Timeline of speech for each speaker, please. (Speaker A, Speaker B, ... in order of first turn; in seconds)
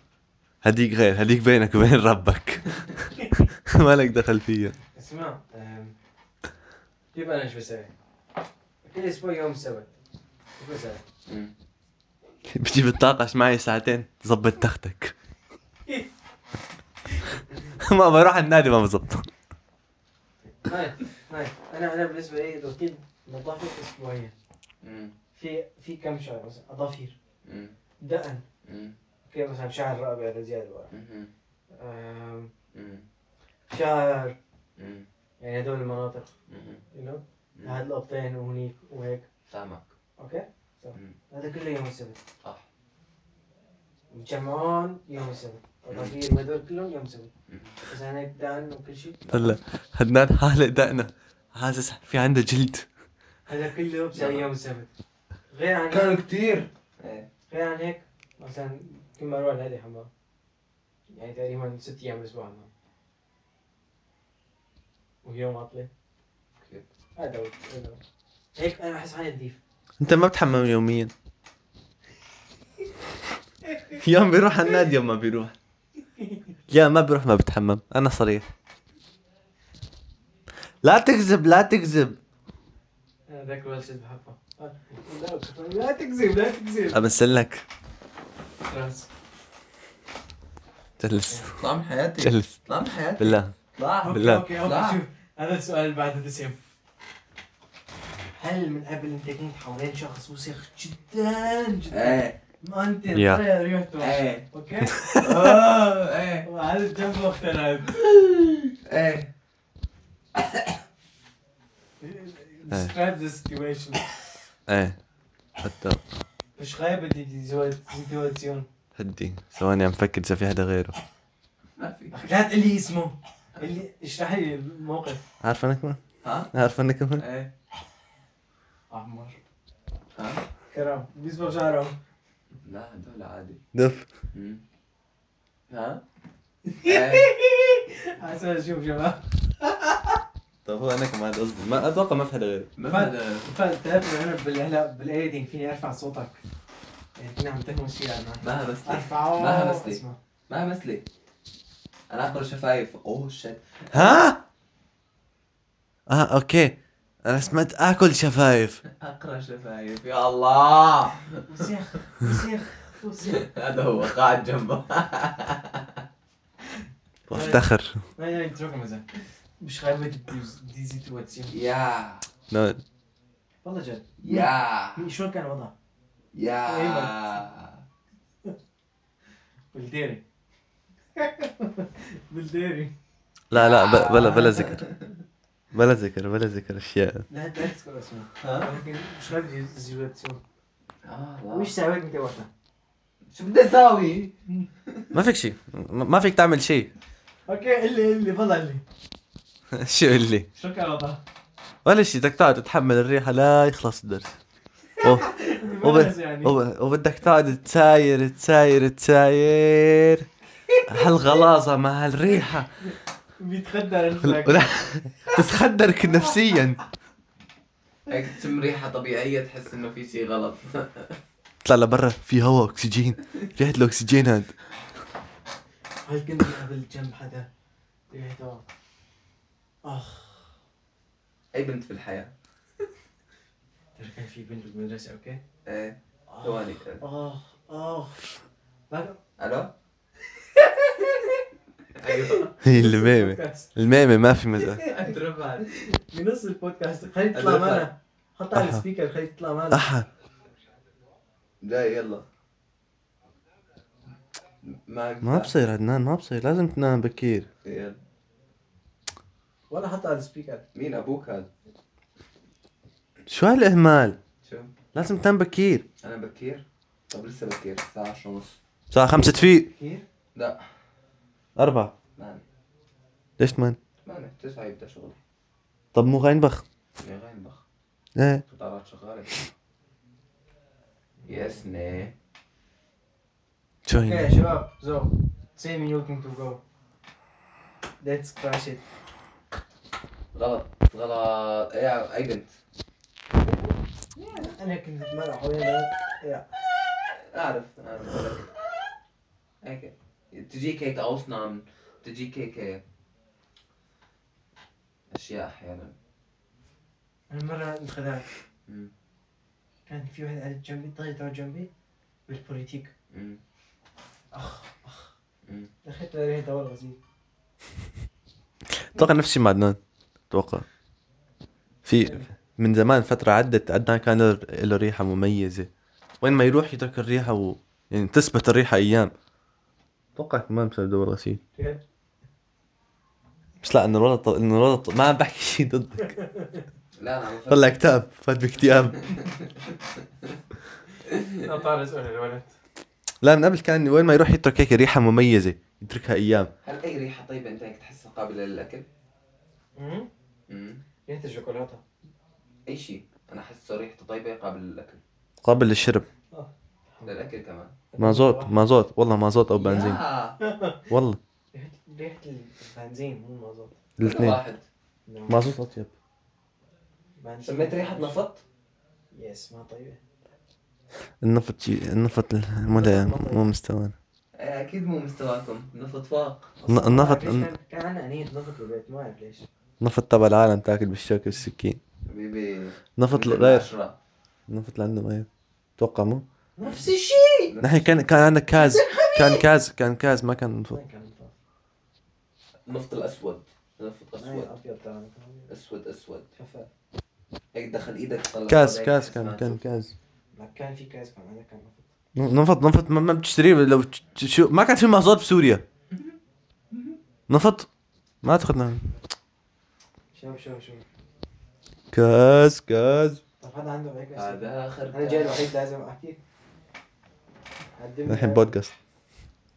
Speaker A: 0.6-4.8, 12.5-15.1, 17.8-19.3, 49.3-52.9, 70.0-71.1, 73.9-75.5, 76.7-78.5, 80.8-82.2, 86.9-87.7, 91.0-91.5, 92.2-92.5, 93.2-93.5, 94.1-94.5, 103.1-103.4, 104.9-105.5, 114.7-115.0, 115.6-116.0, 119.0-121.0, 125.4-127.2, 133.7-134.1, 140.7-142.7, 153.9-154.4, 156.1-158.8, 167.3-168.0, 172.5-172.8, 183.5-184.8, 185.7-187.2, 195.1-196.9, 199.7-200.5, 201.8-204.4, 205.0-210.3, 210.9-212.7, 214.2-216.8, 221.6-224.5, 242.6-244.8, 248.5-248.8, 249.7-250.1, 255.2-257.5, 263.3-264.2, 264.9-265.9, 268.9-269.7, 271.6-271.9, 273.4-273.8, 275.9-276.6, 278.2-278.4, 283.9-284.4, 318.7-319.8, 320.3-320.7, 321.9-325.7, 326.2-329.1, 330.2-331.4, 333.6-336.1, 337.5-339.0, 343.2-346.5, 355.4-356.1, 358.0-360.0, 360.9-361.2, 364.0-364.4, 365.3-365.9, 371.2-373.9, 376.7-377.5, 379.8-381.8, 383.0-383.7, 384.5-386.2, 387.6-390.8, 398.5-399.9, 402.1-405.6, 407.3-407.7, 408.2-408.9, 411.9-413.2, 418.1-418.7
Speaker B: 4.9-6.0, 7.1-7.9, 8.8-9.9, 10.6-11.0, 20.5-24.3, 25.4-27.2, 28.0-28.4, 29.2-30.9, 31.7-32.5, 33.7-34.4, 35.4-36.3, 36.9-39.3, 40.2-42.2, 44.1-47.3, 47.9-49.2, 53.5-54.9, 55.5-56.2, 57.5-60.1, 61.1-62.7, 65.2-65.9, 67.2-68.0, 68.5-69.6, 76.2-76.4, 83.3-87.1, 88.6-89.1, 94.0-96.6, 98.4-105.1, 106.5-108.0, 112.0-114.1, 116.6-118.7, 122.1-125.2, 128.9-129.4, 130.7-132.0, 136.7-140.2, 142.9-146.4, 147.2-150.2, 161.5-163.5, 167.3-169.1, 169.6-171.5, 173.6-175.7, 176.7-177.4, 179.7-180.2, 181.2-182.9, 184.1-184.9, 187.3-190.4, 191.5-192.5, 197.5-198.8, 200.6-201.2, 205.0-206.6, 210.7-211.1, 213.4-215.5, 226.1-227.5, 228.1-228.6, 229.8-230.5, 234.0-235.4, 236.3-239.2, 240.4-241.4, 242.0-243.7, 244.7-245.1, 245.6-249.9, 259.7-260.6, 269.7-270.0, 281.2-281.7, 284.0-286.6, 288.0-288.8, 293.4-293.7, 294.3-296.5, 307.3-308.3, 309.9-311.7, 312.3-312.9, 314.3-315.1, 315.8-317.0, 336.1-336.6, 341.4-342.5, 349.8-350.1, 351.1-351.8, 356.3-357.1, 357.9-358.6, 360.4-360.9, 361.5-363.8, 365.1-365.4, 367.2-368.2, 369.1-370.0, 372.7-373.5, 376.6-379.5, 386.6-387.5, 388.5-389.5, 390.7-391.3, 394.2-395.5, 396.4-396.7, 400.3-401.9, 410.1-410.8, 413.4-416.2, 417.8-418.6
Speaker C: 11.3-11.5, 24.8-25.1, 27.4-27.8, 28.6-29.0, 30.9-31.3, 32.7-33.1, 34.8-35.1, 36.5-36.8, 39.5-39.9, 47.5-47.8, 49.3-49.5, 54.1-54.5, 55.9-57.3, 91.6-95.0, 101.9-102.4, 104.0-104.5, 105.2-106.5, 108.0-109.3, 110.3-110.7, 121.8-122.2, 126.2-126.5, 127.2-127.5, 130.2-130.4, 132.6-133.6, 134.3-134.6, 135.7-136.0, 136.8-137.3, 142.8-143.5, 148.4-151.1, 152.1-154.2, 158.9-161.4, 163.2-166.0, 171.5-172.3, 174.2-175.1, 176.3-177.8, 183.5-185.1, 188.4-188.7, 191.1-191.7, 193.3-194.3, 194.9-195.1, 218.1-221.2, 231.5-232.3, 235.7-237.0, 239.4-239.7, 241.9-242.5, 244.8-245.7, 247.3-247.9, 251.6-252.2, 254.7-255.6, 257.6-258.0, 260.8-261.5, 264.4-264.7, 266.0-268.6, 270.4-270.6, 272.2-272.4, 274.0-275.2, 277.0-277.6, 278.5-279.4, 281.3-282.1, 290.3-292.6, 294.2-294.5, 297.3-298.5, 299.6-302.8, 305.1-305.9, 308.7-308.9, 313.1-313.4, 337.0-337.8, 338.9-340.4, 341.1-341.4, 346.6-348.9, 350.5-350.8, 352.7-355.0, 357.1-357.8, 359.6-360.4, 364.0-364.6, 367.4-368.4, 374.4-376.5, 382.1-384.0, 387.5-388.1, 392.7-394.5, 395.5-396.3, 397.5-399.6, 406.7-407.0, 414.1-415.5